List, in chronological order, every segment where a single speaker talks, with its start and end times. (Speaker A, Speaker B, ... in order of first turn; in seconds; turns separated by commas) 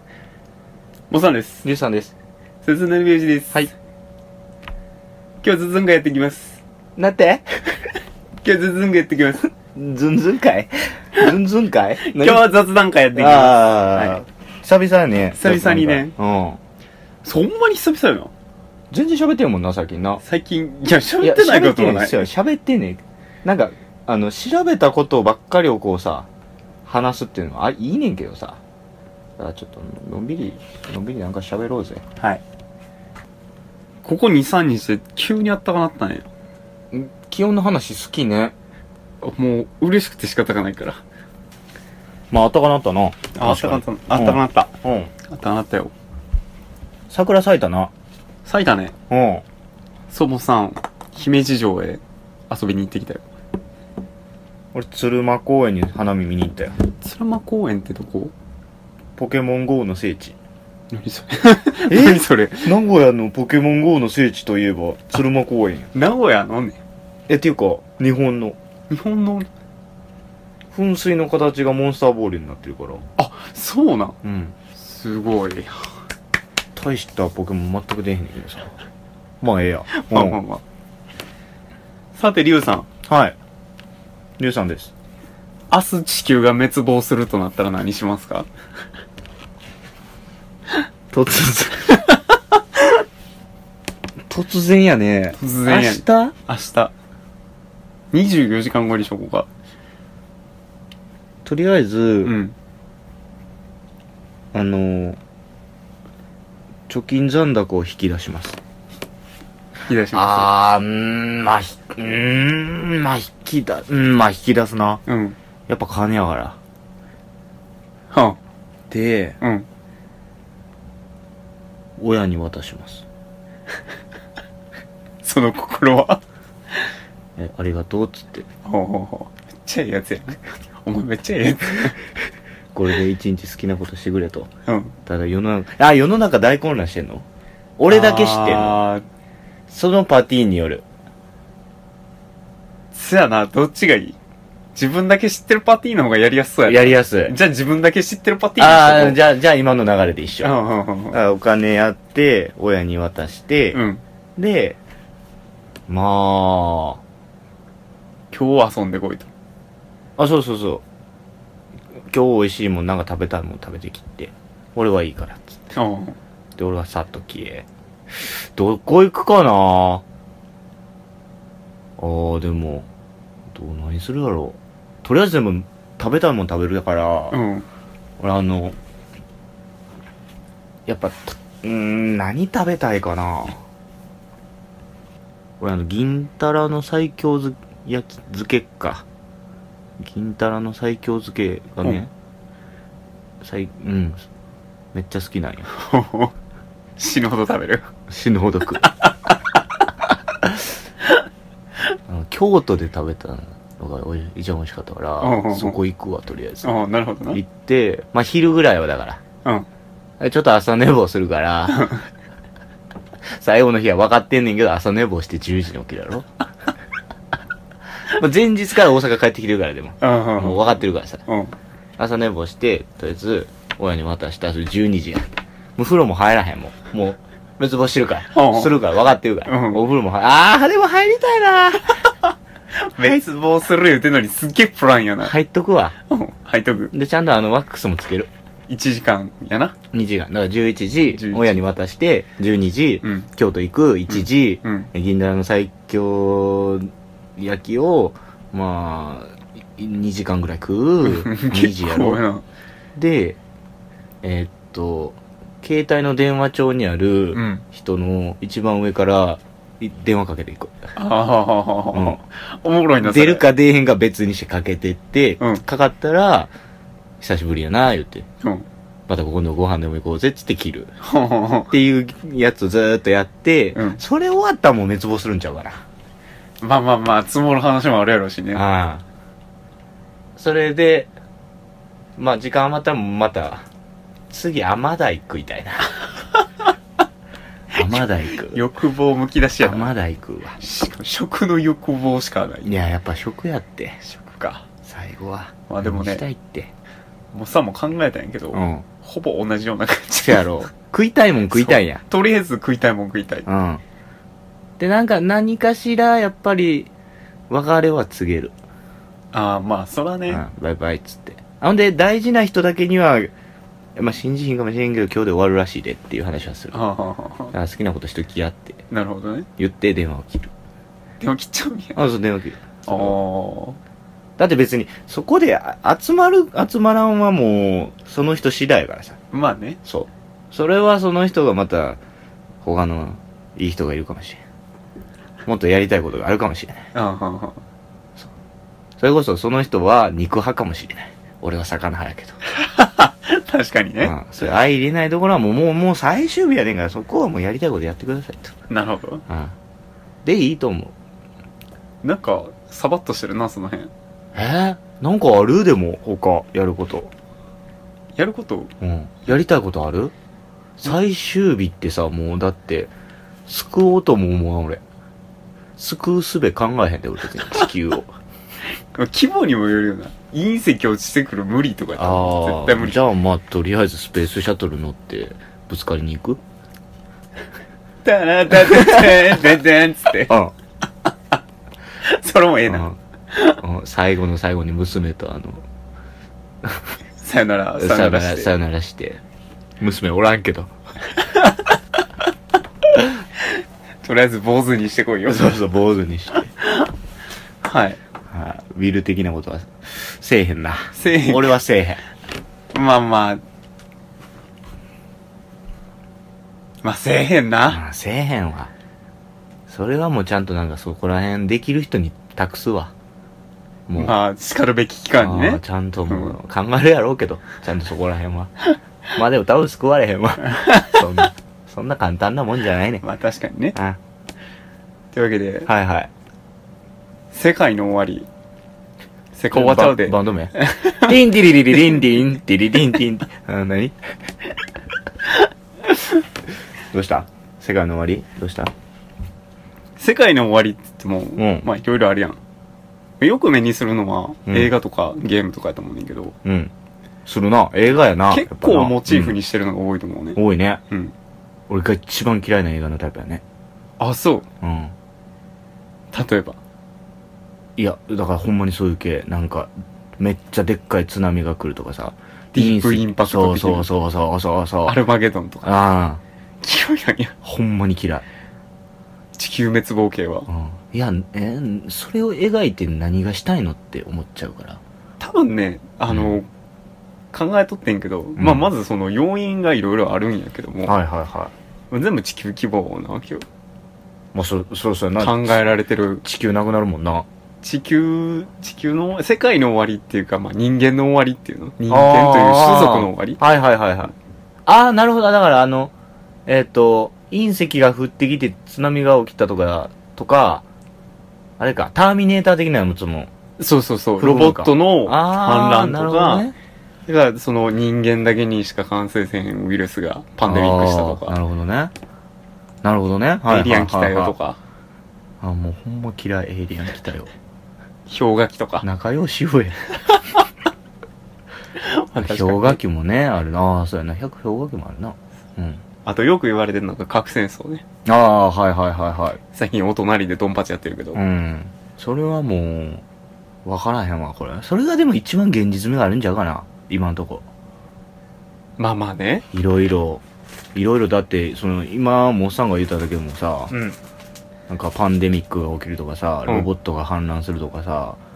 Speaker A: 1.1-1.6, Speaker B: 1.6-2.1, Speaker A: 2.6-3.7, Speaker A: 5.4-6.6, Speaker B: 7.0-7.8, Speaker A: 8.4-9.5, Speaker B: 9.8-12.5, Speaker A: 12.0-14.2, Speaker B: 13.2-16.6, Speaker A: 15.3-16.1, Speaker A: 17.2-18.3, Speaker B: 18.9-20.2, Speaker A: 20.2-22.3, Speaker B: 21.2-26.3, Speaker B: 26.9-28.6, Speaker B: 29.4-32.0, Speaker A: 34.0-36.3, Speaker B: 36.9-38.5, Speaker A: 39.2-41.0, Speaker B: 42.3-45.1, Speaker A: 43.4-44.7, Speaker A: 45.3-45.9, Speaker B: 47.1-47.9, Speaker A: 48.5-48.9, Speaker B: 49.1-49.5, Speaker A: 50.1-53.2, Speaker B: 54.7-56.8, Speaker A: 57.0-58.3, Speaker B: 59.2-60.4, Speaker A: 60.9-62.7, Speaker B: 61.9-65.9, Speaker A: 65.9-66.8, Speaker B: 67.3-68.6, Speaker A: 68.9-69.5, Speaker B: 70.7-73.0, Speaker A: 73.2-74.2, Speaker B: 74.2-74.6, Speaker A: 74.7-75.8, Speaker B: 76.8-78.8, Speaker B: 79.4-80.4, Speaker A: 79.9-80.6, Speaker A: 82.2-82.9, Speaker B: 83.1-83.4, Speaker B: 84.4-84.9, Speaker A: 85.7-88.5, Speaker B: 91.1-92.0, Speaker B: 94.3-96.3, Speaker A: 95.4-96.9, Speaker A: 98.1-99.5, Speaker B: 101.5-102.3, Speaker A: 102.2-102.6, Speaker B: 104.5-105.2, Speaker B: 106.9-108.6, Speaker A: 109.9-110.5, Speaker B: 110.1-115.0, Speaker A: 115.1-115.4, Speaker B: 115.7-116.6, Speaker A: 118.1-118.4, Speaker B: 118.9-119.4, Speaker A: 119.4-119.7, Speaker B: 122.0-123.1, Speaker A: 125.2-126.2, Speaker B: 127.4-128.5, Speaker A: 128.7-132.0, Speaker B: 132.7-134.5, Speaker A: 134.7-134.9, Speaker B: 135.1-137.2, Speaker B: 137.8-138.8, Speaker A: 137.9-139.0, Speaker B: 139.7-140.8, Speaker A: 142.9-144.2, Speaker A: 144.8-149.2, Speaker B: 146.7-147.3, Speaker B: 148.6-150.5, Speaker A: 150.4-151.2, Speaker B: 151.1-153.8, Speaker A: 153.7-154.0, Speaker B: 154.4-154.8, Speaker B: 155.9-157.0, Speaker A: 158.3-159.3, Speaker B: 160.2-160.8, Speaker B: 162.1-165.6, Speaker A: 165.8-166.2, Speaker B: 166.6-170.0, Speaker B: 172.0-172.9, Speaker B: 173.5-177.4, Speaker A: 177.3-177.7, Speaker B: 178.2-178.8, Speaker B: 180.9-183.6, Speaker B: 185.6-189.1, Speaker B: 190.0-192.1, Speaker B: 193.4-194.2, Speaker B: 194.9-195.7, Speaker A: 195.7-196.3, Speaker A: 197.0-197.9, Speaker B: 198.1-198.9, Speaker B: 200.1-200.7, Speaker B: 202.1-206.8, Speaker A: 205.2-205.8, Speaker A: 206.6-207.4, Speaker B: 207.3-209.2, Speaker B: 210.2-211.9, Speaker A: 211.7-212.0, Speaker B: 213.3-216.3, Speaker B: 218.1-221.2, Speaker A: 220.0-221.5, Speaker B: 222.0-232.0, Speaker A: 228.3-228.7, Speaker A: 229.5-229.8, Speaker A: 232.7-235.3, Speaker B: 235.2-236.0, Speaker A: 236.1-236.9, Speaker B: 236.9-238.3, Speaker A: 238.7-239.8, Speaker B: 239.9-252.2, Speaker A: 241.1-241.6, Speaker A: 243.0-243.3, Speaker A: 244.1-244.9, Speaker A: 251.0-252.4, Speaker B: 252.9-253.4, Speaker B: 254.2-260.8, Speaker A: 257.3-257.6, Speaker A: 261.0-263.5, Speaker B: 261.9-262.2, Speaker B: 263.0-266.5, Speaker B: 267.2-268.3, Speaker B: 269.1-270.9, Speaker A: 271.0-271.7, Speaker B: 271.7-275.8, Speaker A: 273.8-274.0, Speaker A: 276.6-278.6, Speaker B: 278.5-279.0, Speaker B: 280.4-281.1, Speaker B: 282.2-283.7, Speaker B: 284.3-285.9, Speaker B: 287.7-288.6, Speaker A: 288.4-289.9, Speaker B: 289.6-290.6, Speaker A: 290.6-292.7, Speaker B: 292.6-294.0, Speaker A: 294.0-294.6, Speaker B: 294.9-296.7, Speaker A: 295.7-296.2, Speaker A: 297.3-300.6, Speaker B: 298.5-298.9, Speaker B: 300.2-302.0, Speaker A: 301.5-303.5, Speaker B: 303.5-303.8, Speaker B: 304.8-306.9, Speaker B: 307.5-308.5, Speaker A: 309.3-310.4, Speaker B: 310.3-313.3, Speaker B: 314.0-316.8, Speaker A: 316.7-317.5, Speaker B: 317.5-318.8, Speaker A: 318.9-319.5, Speaker B: 319.6-320.5, Speaker A: 321.2-322.0, Speaker B: 321.9-323.1, Speaker A: 322.9-323.8, Speaker B: 324.4-329.2, Speaker A: 329.3-329.8, Speaker B: 329.9-332.0, Speaker B: 332.6-334.4, Speaker B: 335.5-336.8, Speaker A: 336.9-337.6, Speaker B: 339.0-342.4, Speaker A: 342.6-344.1, Speaker B: 344.0-348.5, Speaker A: 348.7-349.2, Speaker B: 349.3-349.5, Speaker B: 350.2-350.9, Speaker A: 352.0-353.9, Speaker B: 354.3-357.1, Speaker A: 358.2-358.7, Speaker B: 358.8-360.1, Speaker B: 360.8-362.9, Speaker B: 363.5-364.8, Speaker B: 365.8-368.1, Speaker A: 368.9-373.0, Speaker B: 372.0-376.4, Speaker A: 378.0-380.4, Speaker B: 380.3-380.5, Speaker A: 382.0-383.6, Speaker B: 382.7-383.0, Speaker B: 383.6-385.6, Speaker B: 386.6-386.9, Speaker A: 387.2-388.5, Speaker B: 387.8-389.2, Speaker B: 389.8-390.7, Speaker A: 393.4-395.6, Speaker B: 395.3-396.5, Speaker A: 396.6-396.9, Speaker A: 397.6-398.0, Speaker B: 398.3-402.0, Speaker A: 400.9-401.6, Speaker A: 402.7-403.4, Speaker A: 406.8-407.8, Speaker B: 407.7-408.7, Speaker B: 409.7-412.9, Speaker B: 413.9-414.2, Speaker A: 414.0-416.4, Speaker B: 415.2-418.5, Speaker B: 419.1-423.0, Speaker A: 420.5-421.0, Speaker A: 423.0-423.8, Speaker A: 425.1-425.7, Speaker B: 425.7-426.1, Speaker A: 427.3-428.3, Speaker A: 429.4-431.1, Speaker B: 429.5-434.0, Speaker B: 436.9-438.7, Speaker A: 440.0-442.4, Speaker B: 441.4-441.7, Speaker A: 443.2-446.4, Speaker B: 446.4-446.7, Speaker B: 447.2-449.4, Speaker A: 448.3-451.1, Speaker B: 450.4-450.8, Speaker B: 451.7-453.4, Speaker A: 454.0-454.5, Speaker B: 454.6-454.9, Speaker A: 456.1-456.6, Speaker B: 457.8-465.0, Speaker A: 462.5-463.9, Speaker A: 464.9-465.7, Speaker B: 465.6-466.2, Speaker A: 466.6-467.4, Speaker B: 467.4-468.2, Speaker A: 469.4-470.5, Speaker B: 470.5-474.8, Speaker A: 475.2-476.5, Speaker B: 476.1-476.4, Speaker A: 477.3-480.9, Speaker B: 478.4-478.7, Speaker B: 480.9-481.5, Speaker A: 481.9-483.4, Speaker B: 484.3-485.7, Speaker A: 485.2-486.2, Speaker B: 486.2-487.3, Speaker A: 487.6-493.4, Speaker B: 491.9-494.1, Speaker B: 494.7-495.9, Speaker B: 496.5-500.6, Speaker B: 501.6-503.3, Speaker A: 503.6-506.5, Speaker B: 504.2-506.6, Speaker A: 507.1-511.4, Speaker B: 510.4-511.9, Speaker B: 512.8-514.4, Speaker A: 513.5-514.6, Speaker B: 515.4-517.3, Speaker A: 518.1-518.9, Speaker B: 518.8-519.8, Speaker A: 521.8-522.8, Speaker B: 522.2-525.8, Speaker A: 526.0-527.8, Speaker B: 528.0-529.4, Speaker A: 529.5-531.2, Speaker B: 531.1-533.0, Speaker B: 533.6-537.5, Speaker A: 538.8-539.5, Speaker B: 539.5-540.2, Speaker B: 540.8-543.8, Speaker A: 543.7-544.0, Speaker B: 544.7-548.2